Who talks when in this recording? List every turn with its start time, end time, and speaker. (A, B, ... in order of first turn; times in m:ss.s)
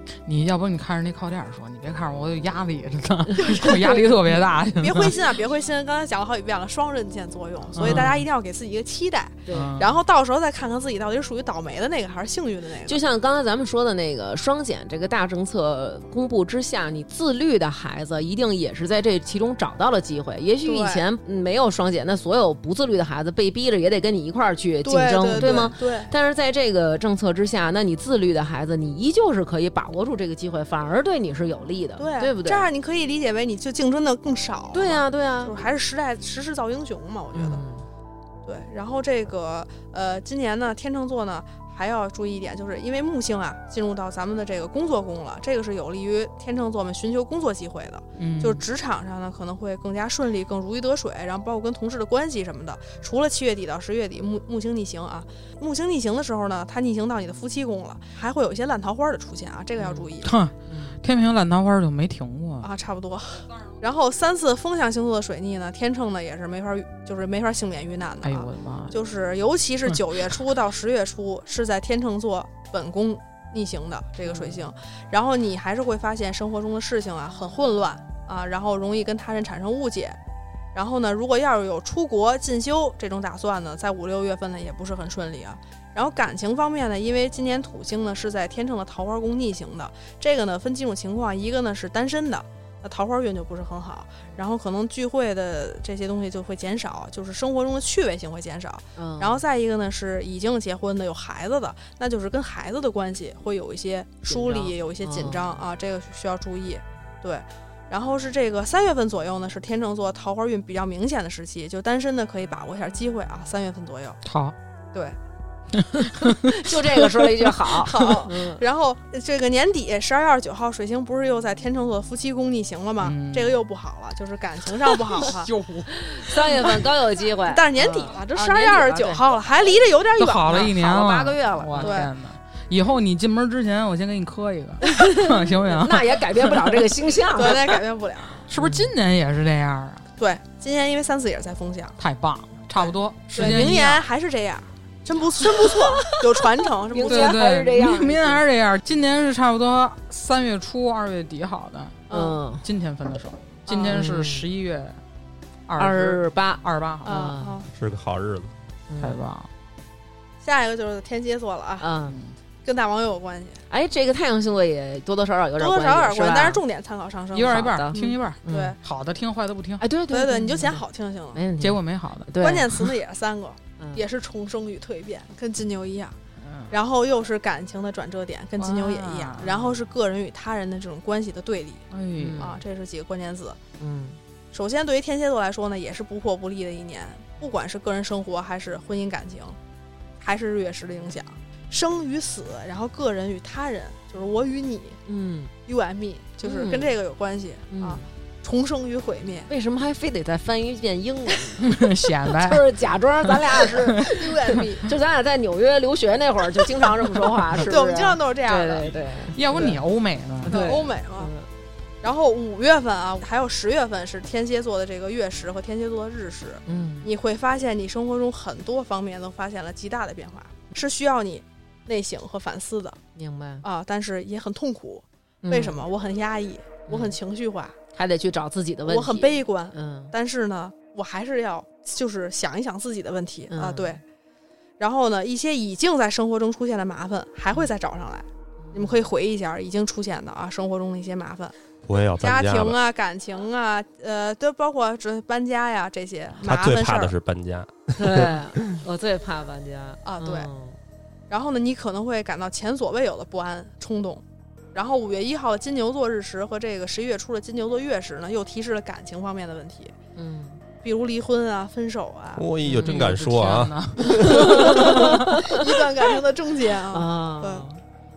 0:00.2-0:05.1 A
0:03.4-0:04.1 B
0:04.8-0:13.0 C
0:07.8-0:08.2 A
0:07.8-0:08.2 B
0:09.4-0:09.8 B
0:09.5-0:09.9 A
0:12.8-0:32.7 B
0:20.6-0:21.0 C
0:24.8-0:26.1 C
0:32.0-0:37.6 C
0:34.7-0:35.6 B
0:37.3-0:37.8 B
0:38.4-1:00.3 C
0:48.2-0:48.6 A
0:59.8-1:00.1 B
1:00.2-1:02.7 A
1:00.7-1:01.0 B
1:02.6-1:20.2 C
1:08.2-1:08.9 A
1:14.2-1:14.6 B
1:20.7-1:54.2 C
1:39.0-1:39.4 B
1:44.3-1:45.6 B
1:54.2-1:54.6 A
1:55.8-1:57.9 A
1:55.9-1:58.6 B
1:57.7-2:05.5 C
2:03.0-2:03.6 A
2:05.2-2:06.7 A
2:06.0-2:09.3 B
2:07.4-2:10.7 C
2:10.2-2:16.9 A
2:10.5-2:12.0 B
2:11.8-2:12.1 C
2:14.8-2:17.8 B
2:17.3-2:18.4 C
2:18.5-2:20.0 A
2:18.6-2:18.9 B
2:20.2-2:22.0 C
2:22.0-2:24.0 A
2:22.8-2:27.4 C
2:23.4-2:23.6 B
2:25.4-2:28.4 B
2:27.1-2:32.0 A
2:32.1-2:32.4 C
2:32.1-2:32.6 B
2:32.6-2:35.0 A
2:33.7-2:34.0 C
2:33.9-2:34.4 B
2:35.7-2:37.3 A
2:35.8-2:37.6 B
2:37.0-2:37.7 C
2:37.7-2:38.5 D
2:38.9-2:39.2 B
2:39.0-2:39.5 A
2:40.4-2:41.9 C
2:41.8-2:42.2 B
2:42.1-2:42.3 A
2:42.6-2:43.6 C
2:43.7-2:46.6 B
2:45.6-2:48.8 C
2:47.3-2:49.8 A
2:47.5-2:48.8 B
2:49.8-2:50.8 B
2:50.1-2:51.4 C
2:51.3-2:52.8 B
2:51.6-2:52.6 A
2:52.4-2:56.2 C
2:53.8-2:54.0 B
2:56.4-2:56.7 A
2:56.7-3:01.8 C
2:58.6-2:59.7 A
3:01.9-3:02.5 A
3:02.2-3:02.6 B
3:02.4-3:03.6 C
3:03.8-3:04.2 B
3:04.5-3:09.6 C
3:10.2-3:15.0 C
3:15.1-3:15.5 B
3:15.6-3:19.5 C
3:16.4-3:16.9 B
3:17.7-3:18.0 B
3:19.5-3:29.8 B
3:21.6-3:22.7 A
3:23.2-3:24.2 A
3:24.1-3:24.9 C
3:27.6-3:28.9 C
3:29.3-3:30.6 A
3:30.4-3:31.5 B
3:30.5-3:31.3 C
3:32.0-3:43.0 C
3:36.6-3:37.1 B
3:43.1-3:43.6 B
3:43.6-3:47.8 C
3:45.4-3:45.8 B
3:46.9-3:47.2 B
3:47.9-3:50.1 B
3:48.8-3:54.0 C
3:53.5-3:54.0 B
3:54.8-4:01.5 C
3:58.6-3:59.0 B
4:01.8-4:02.8 D
4:02.2-4:07.1 C
4:06.4-4:08.4 D
4:08.0-4:10.8 B
4:10.0-4:10.5 C
4:11.3-4:14.2 C
4:14.7-4:19.9 C
4:20.2-4:20.6 B
4:20.8-4:22.4 C
4:22.4-4:24.2 D
4:22.6-4:23.1 B
4:22.6-4:25.3 A
4:24.0-4:25.8 B
4:24.0-4:27.7 C
4:26.9-4:27.8 B